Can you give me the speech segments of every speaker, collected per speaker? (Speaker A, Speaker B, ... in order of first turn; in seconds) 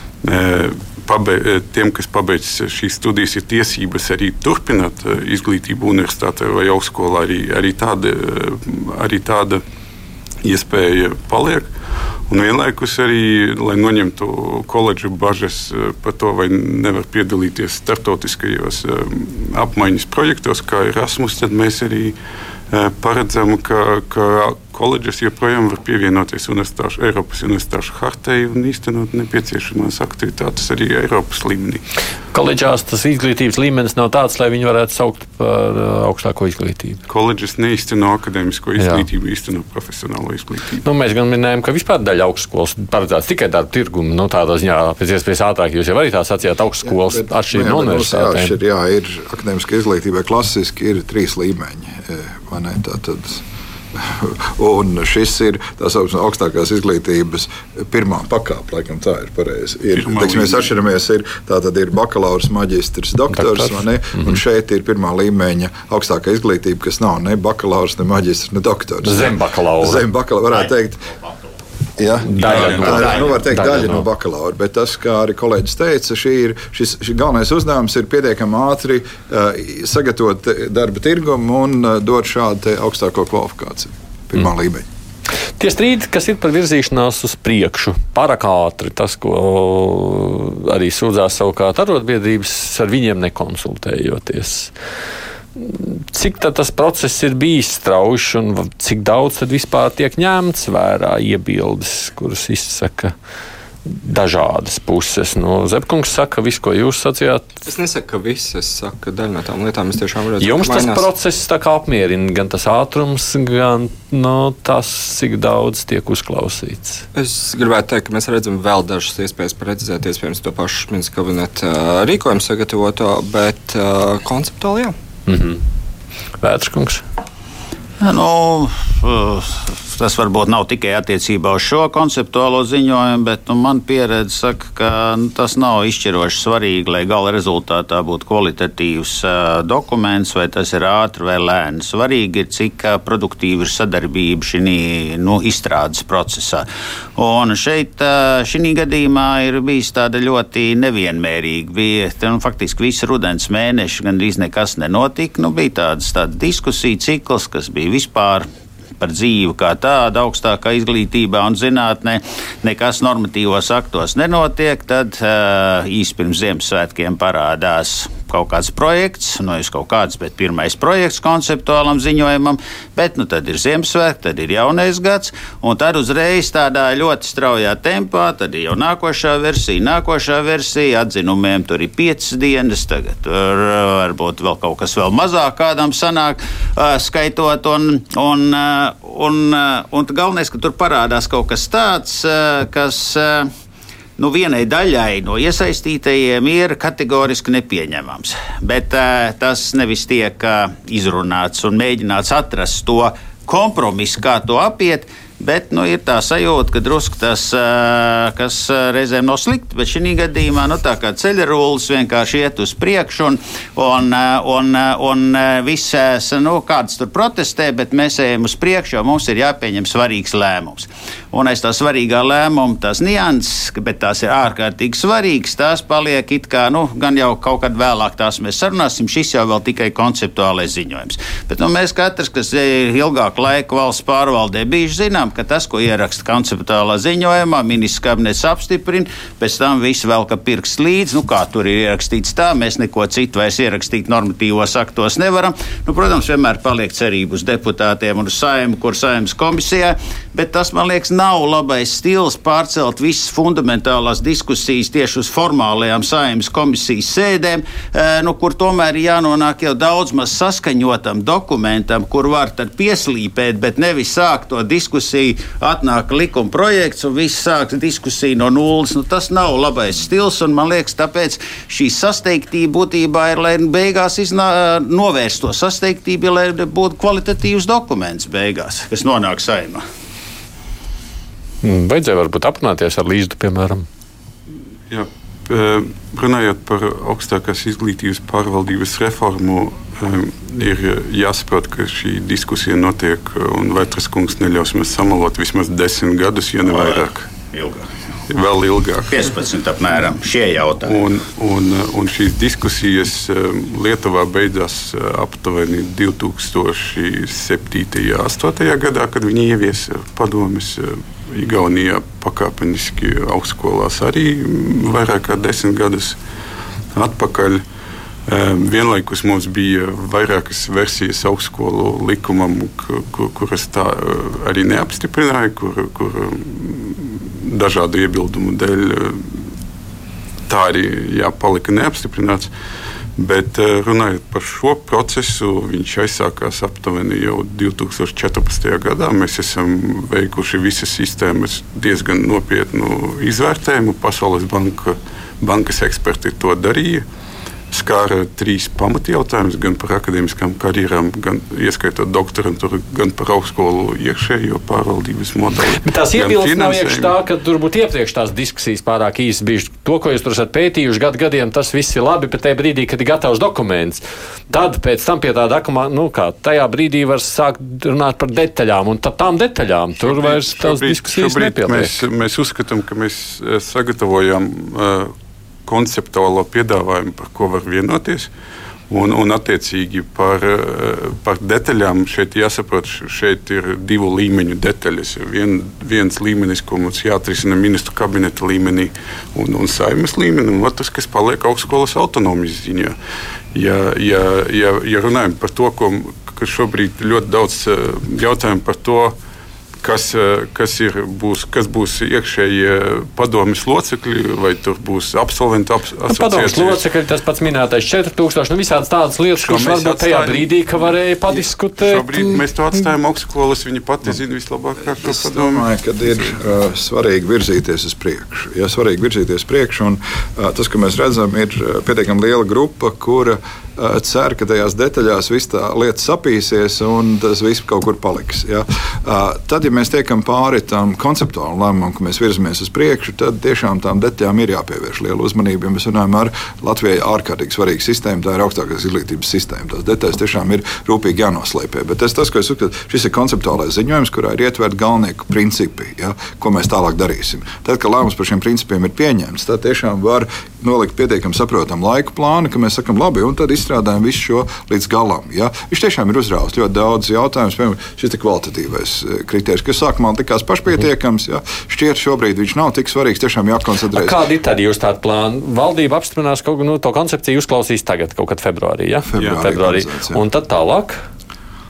Speaker A: 0.2-9.6, 10.4-11.7, 12.3-22.1, 22.7-31.8, 37.1-40.8, 59.9-60.7, 284.9-297.3, 298.3-299.1, 300.8-316.2, 316.9-317.6, 318.3-329.4, 330.5-332.5, 333.2-347.0, 347.7-357.1, 370.0-375.1, 375.6-378.3, 378.9-392.9, 393.5-399.1, 399.8-406.8, 409.4-415.7
Speaker B: 32.3-37.0, 38.8-39.0, 40.8-48.6, 63.3-64.4, 69.0-70.0, 72.2-74.0, 85.6-94.7, 95.5-103.1, 103.8-107.5, 110.4-117.0, 125.3-125.6, 126.4-127.0, 281.6-283.9, 355.8-372.0, 406.1-412.8, 463.9-471.0
Speaker C: 46.8-53.4, 53.9-71.1, 72.0-84.8, 415.0-464.2, 469.1-470.2
Speaker D: 107.6-111.1, 117.1-124.9
Speaker E: 128.0-146.7, 147.2-158.4, 159.0-193.5, 194.2-279.8, 296.7-297.8, 299.1-301.0